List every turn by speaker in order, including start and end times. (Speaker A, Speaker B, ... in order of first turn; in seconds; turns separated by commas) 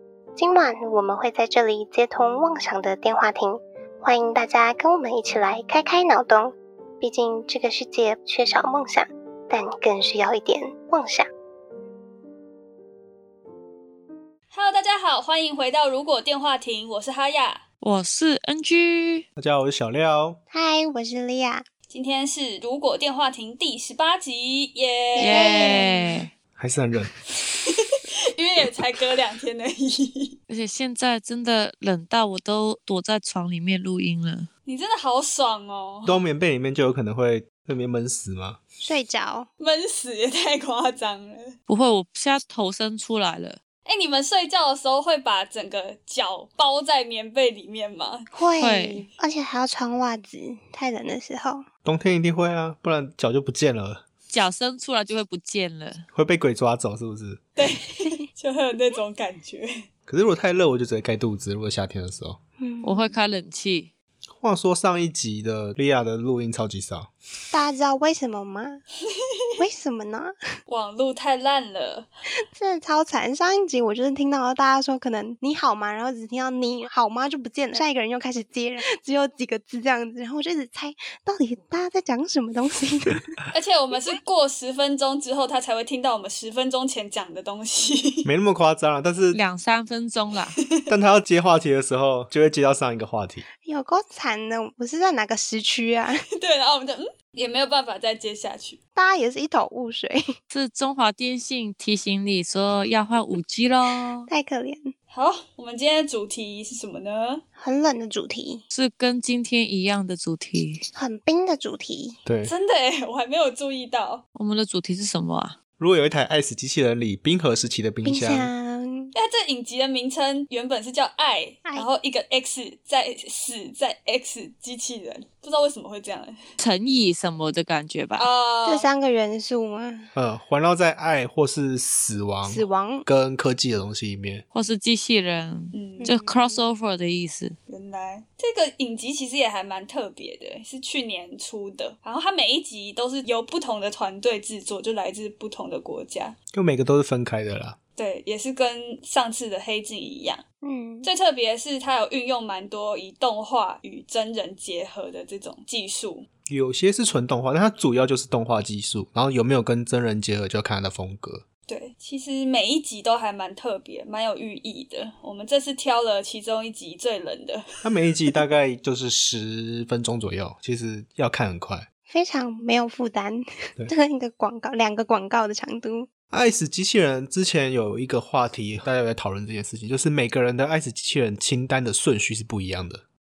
Speaker A: 0.3-11.3, Speaker B: 14.5-17.6, Speaker C: 17.8-19.2, Speaker D: 19.4-20.4, Speaker A: 20.5-21.6, Speaker B: 21.9-25.9, Speaker C: 25.2-26.3, Speaker A: 25.2-26.2, Speaker D: 26.6-27.1, Speaker B: 27.4-27.8, Speaker B: 28.3-30.4, Speaker C: 30.5-34.5, Speaker B: 34.6-36.2, Speaker D: 36.0-38.6, Speaker A: 38.8-39.5, Speaker B: 39.6-41.5, Speaker C: 41.7-43.6, Speaker B: 43.9-48.3, Speaker A: 48.3-51.6, Speaker C: 48.6-49.1, Speaker D: 51.8-54.0, Speaker C: 54.3-56.1, Speaker D: 56.1-57.4, Speaker B: 57.6-59.7, Speaker D: 60.1-62.4, Speaker A: 62.6-63.1, Speaker C: 62.8-63.9, Speaker D: 64.4-67.1, Speaker A: 67.5-68.8, Speaker A: 69.6-70.3, Speaker B: 70.7-72.1, Speaker A: 72.5-83.3, Speaker B: 83.5-88.3, Speaker D: 88.2-89.4, Speaker C: 89.3-90.5, Speaker B: 90.6-90.8, Speaker D: 90.9-93.5, Speaker A: 93.6-96.2, Speaker B: 96.4-98.8, Speaker A: 99.0-100.2, Speaker C: 100.5-104.3, Speaker A: 104.3-104.9, Speaker B: 105.1-107.4, Speaker A: 107.6-108.6, Speaker C: 108.7-110.8, Speaker A: 110.9-112.2, Speaker D: 112.2-112.5, Speaker B: 112.4-114.2, Speaker C: 114.3-115.5, Speaker D: 115.8-118.5, Speaker A: 118.0-119.1, Speaker B: 119.1-126.3, Speaker C: 126.6-128.3, Speaker B: 128.2-128.9, Speaker A: 128.6-130.1, Speaker D: 130.1-134.4, Speaker A: 132.4-133.1, Speaker C: 134.5-137.6, Speaker B: 135.7-136.1, Speaker A: 136.0-136.7, Speaker B: 137.7-146.3, Speaker D: 146.5-147.8, Speaker B: 148.0-150.4, Speaker A: 150.6-151.1, Speaker B: 151.0-156.3, Speaker D: 156.5-161.4, Speaker B: 161.7-167.6, Speaker D: 167.8-171.9, Speaker A: 172.1-176.1, Speaker D: 176.3-183.0